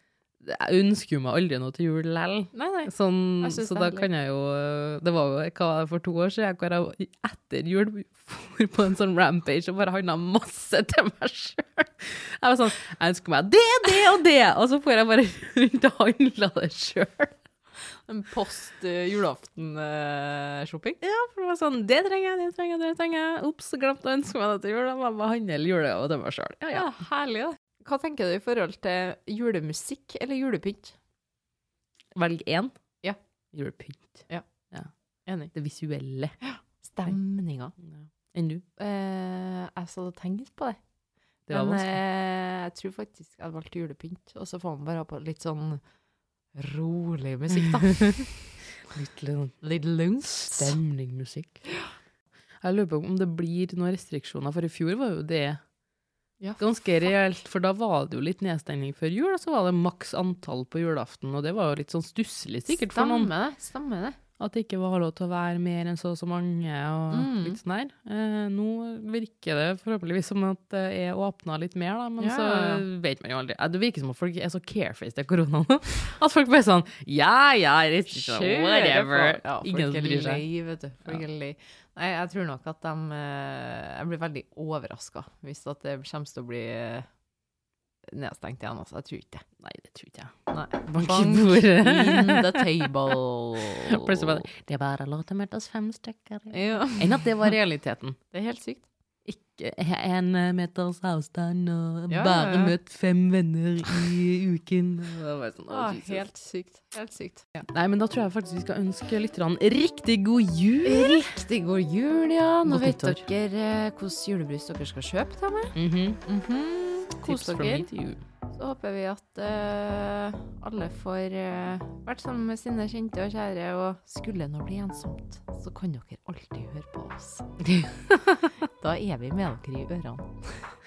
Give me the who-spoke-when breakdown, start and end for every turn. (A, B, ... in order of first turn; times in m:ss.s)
0:00.4-0:17.4 A
0:02.5-0:04.1 B
0:18.1-0:21.0 B
0:21.0-0:26.9 A
0:26.7-0:31.0 B
0:32.1-0:32.7 A
0:33.5-0:34.9 A
0:35.3-0:35.5 B
0:35.5-0:36.4 A
0:36.4-0:37.8 B
0:37.8-0:38.6 A
0:38.8-0:40.8 B
0:41.5-0:42.0 A
0:41.5-0:45.8 B
0:46.6-0:48.5 B
0:47.6-0:48.2 A
0:48.9-0:49.6 A
0:49.6-0:50.8 B
0:50.3-0:51.6 A
0:52.6-0:55.6 A
0:56.4-0:57.1 B
0:56.6-1:03.3 A
1:02.7-1:04.2 B
1:04.4-1:20.4 A
1:07.1-1:07.6 B
1:12.2-1:12.8 B
1:18.1-1:27.1 B
1:28.1-1:29.4 B
1:29.6-1:30.3 A
1:30.5-1:34.4 B
1:30.9-1:32.7 A
1:33.6-1:38.2 A
1:36.5-1:37.5 B
1:38.3-1:38.8 B
1:39.2-1:46.2 A
1:42.1-1:42.8 B
1:45.7-1:47.7 B
1:47.7-1:51.3 A
1:50.8-1:57.9 B
1:52.6-1:53.2 A
1:55.8-1:56.2 A
1:57.2-1:58.2 A
1:58.5-2:07.5 B
2:07.6-2:08.4 A
2:08.6-2:10.7 B